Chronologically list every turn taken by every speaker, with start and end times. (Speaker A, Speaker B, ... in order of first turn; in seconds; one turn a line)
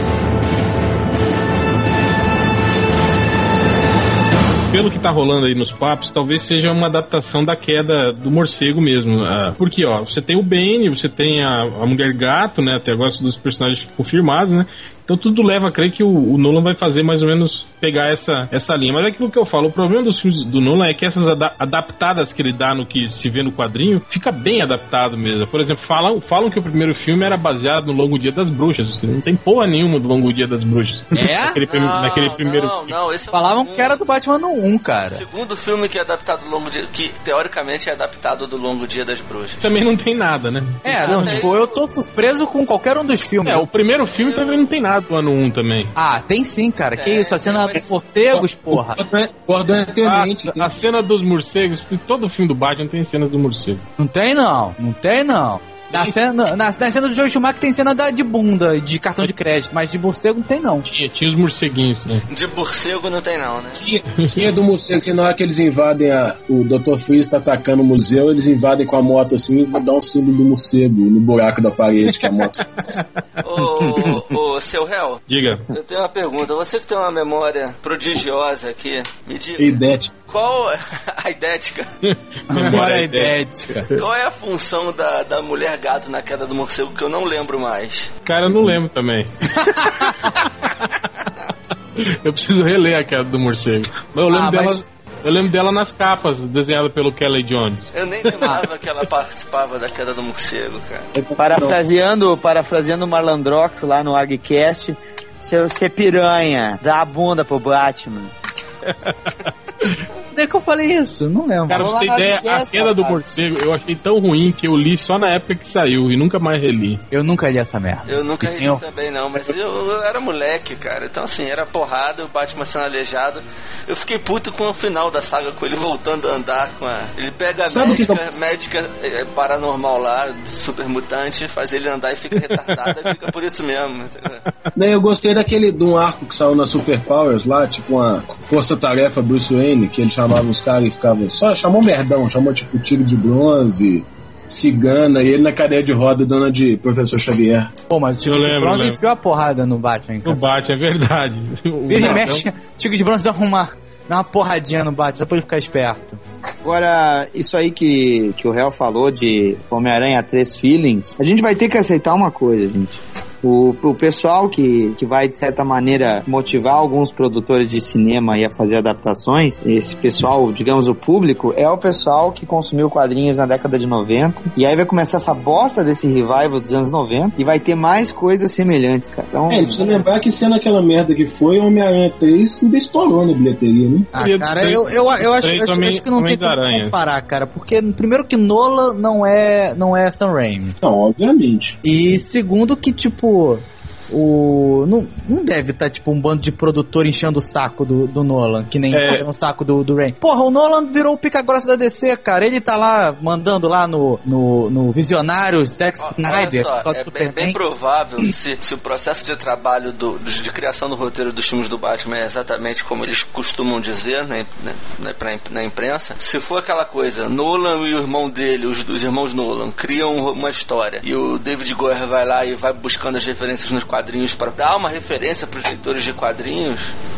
Speaker A: 4.7-33.0
Speaker B: 31.1-31.6
Speaker C: 31.7-34.0
Speaker B: 33.3-35.2
Speaker C: 35.1-39.7
Speaker A: 39.6-41.5
Speaker B: 40.8-43.7
Speaker C: 41.0-41.8
Speaker A: 43.5-45.9
Speaker C: 44.1-44.7
Speaker B: 46.0-49.0
Speaker C: 47.0-48.0
Speaker D: 48.3-50.7
Speaker A: 50.0-53.8
Speaker B: 54.0-60.9
Speaker A: 60.8-62.2
Speaker C: 62.3-63.8
Speaker A: 64.1-64.4
Speaker D: 64.2-72.8
Speaker C: 73.4-81.9
Speaker A: 75.3-75.7
Speaker D: 79.6-80.1
Speaker A: 82.0-83.4
Speaker B: 82.5-83.9
Speaker C: 83.9-88.2
Speaker A: 88.2-91.0
Speaker B: 89.6-90.3
Speaker A: 92.0-98.6
Speaker B: 94.3-94.8
Speaker C: 97.9-101.1
Speaker D: 101.1-101.8
Speaker E: 101.4-108.3
Speaker A: 108.8-110.0
Speaker B: 110.3-111.9
Speaker A: 111.7-117.0
Speaker E: 111.7-113.2
Speaker B: 117.1-118.8
Speaker C: 118.1-134.4
Speaker D: 127.7-128.3
Speaker D: 134.8-147.7
Speaker B: 147.9-150.5
Speaker A: 148.2-149.0
Speaker A: 150.2-152.4
Speaker B: 151.9-156.2
Speaker D: 151.9-152.3
Speaker E: 156.7-180.0
Speaker D: 179.5-184.1
Speaker B: 184.1-190.8
Speaker A: 184.2-187.0
Speaker D: 190.8-191.8
Speaker B: 191.8-207.6
Speaker A: 198.9-199.3
Speaker C: 206.0-226.9